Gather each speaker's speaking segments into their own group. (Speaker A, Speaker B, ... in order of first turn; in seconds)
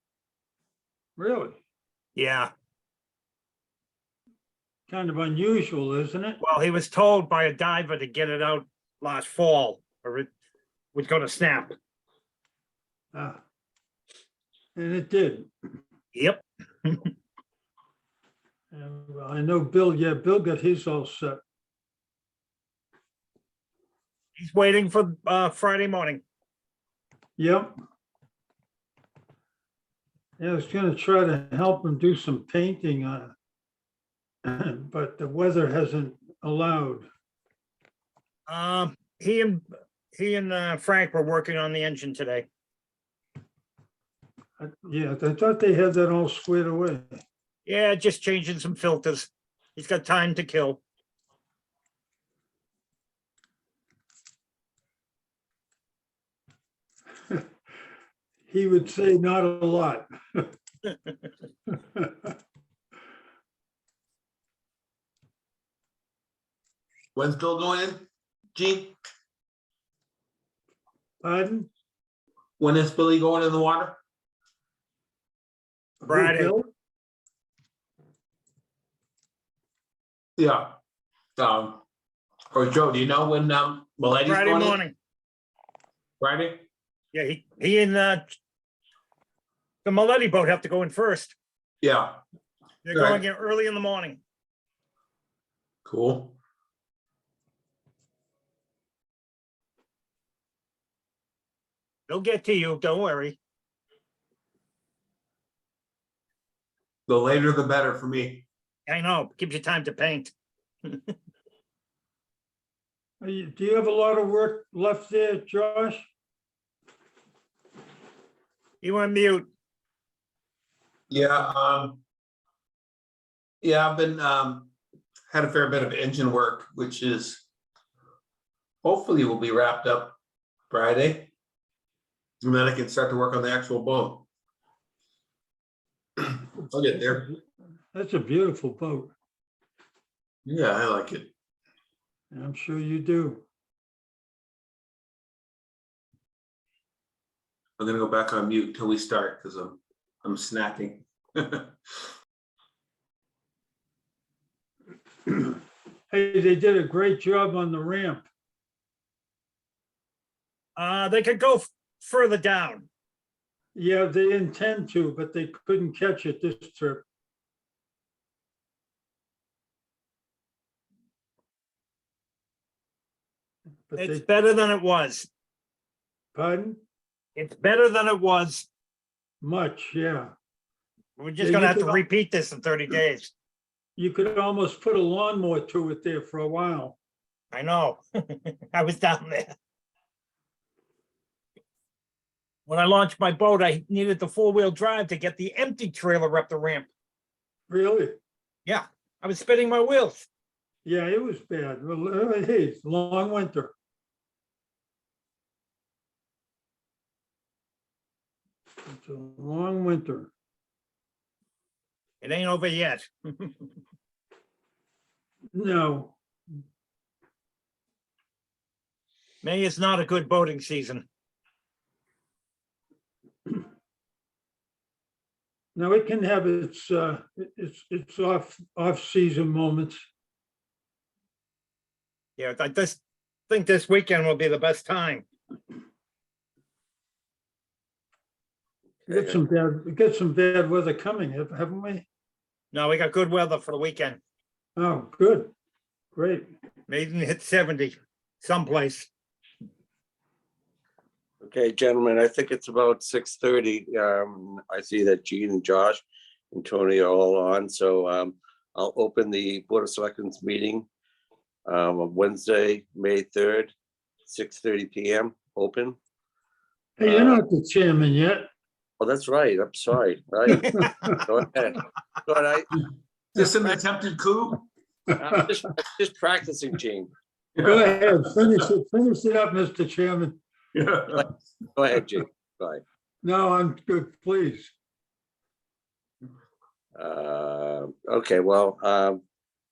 Speaker A: 1.2-1.6, 4.9-6.4, 13.1-13.4, 14.8-15.5, 18.7-21.4, 27.4-27.7, 30.4-33.3, 34.4-37.1, 44.6-47.2, 58.5-60.5, 62.0-62.3, 71.2-71.7, 76.0-76.7, 113.2-116.1, 136.9-137.4, 137.9-139.1, 142.3-143.4, 155.3-155.5, 156.1-158.3, 163.8-167.1, 173.9-174.3, 176.3-176.8, 179.4-180.3, 181.4-182.1, 184.0-187.0, 197.7-198.2, 200.8-203.7, 208.9-210.3, 215.5-216.2, 225.8-230.0, 239.1-242.1, 244.8-245.5, 246.2-246.5, 267.0-268.5, 270.5-271.0, 277.6-280.4, 283.2-284.7
Speaker B: 2.2-2.5, 6.4-10.3, 10.9-11.7, 16.1-17.1, 24.4-26.2, 38.5-42.5, 47.7-50.8, 76.1-76.5, 84.2-84.9, 87.1-88.3, 89.8-91.3, 92.8-94.2, 102.1-103.4, 108.9-110.3, 118.8-119.5, 160.8-162.9, 174.0-175.3, 177.4-178.7, 181.2-183.3, 187.5-189.5, 192.7-196.9, 198.7-200.3, 212.2-213.7, 219.4-221.1, 232.4-235.3, 242.7-244.2, 246.9-249.1
Speaker C: 67.2-69.0, 72.6-74.0, 80.4-80.8, 81.4-81.8, 82.5-84.8, 86.2-86.6, 91.8-92.2, 92.9-93.2, 95.8-96.4, 107.1-108.5, 121.1-122.0, 123.6-124.7, 125.3-127.5, 128.8-130.2, 130.7-131.3, 132.4-134.3, 136.2-137.3, 140.5-141.3, 147.8-151.7, 273.4-274.6, 277.6-278.3, 280.7-281.3
Speaker D: 239.1-239.4, 251.4-260.9, 261.7-263.7, 264.3-266.0, 267.0-267.4, 269.0-272.7, 273.4-273.8, 275.1-277.1, 281.8-282.8, 287.0-289.2